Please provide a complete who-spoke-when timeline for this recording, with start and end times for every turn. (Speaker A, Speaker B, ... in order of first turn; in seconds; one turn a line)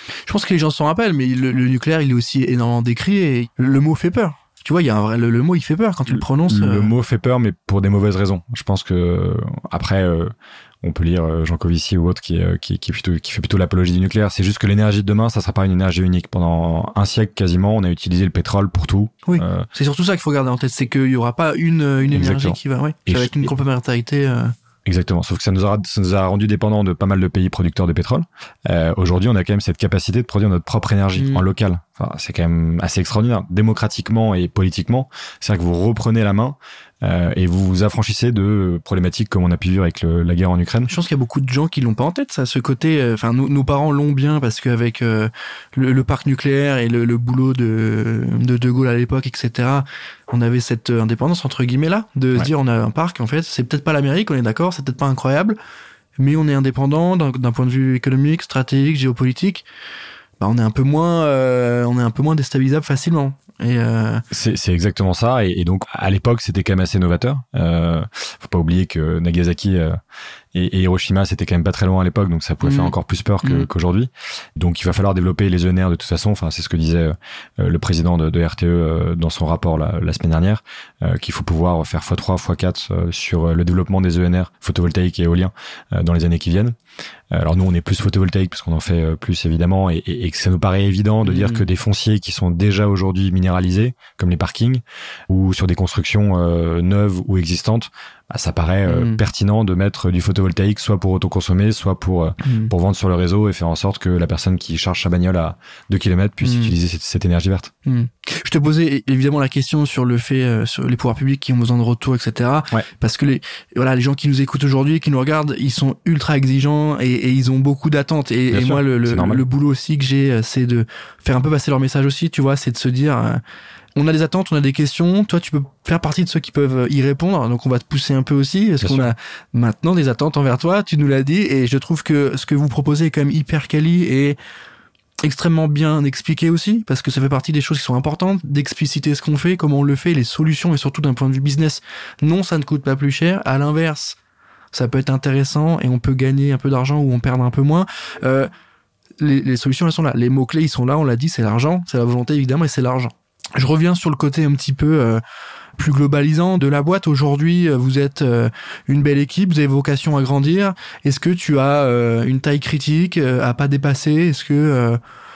Speaker A: 0.3-6.9
Speaker B: 6.1-19.7
Speaker A: 19.2-24.5
Speaker B: 22.1-22.6
Speaker B: 23.1-23.5
Speaker B: 24.8-40.9
Speaker A: 31.1-31.4
Speaker A: 40.9-55.6
Speaker A: 56.2-59.6
Speaker A: 60.4-64.2
Speaker B: 64.3-70.0
Speaker B: 70.5-86.7
Speaker A: 72.6-72.9
Speaker B: 87.3-107.7
Speaker A: 91.2-91.6
Speaker A: 98.9-99.2
Speaker A: 102.4-102.7
Speaker A: 106.4-106.7
Speaker A: 107.8-123.4
Speaker B: 118.5-119.4
Speaker A: 124.0-134.4
Speaker B: 128.8-129.1
Speaker A: 135.2-144.2
Speaker A: 144.7-148.5
Speaker A: 149.2-155.2
Speaker A: 155.8-165.0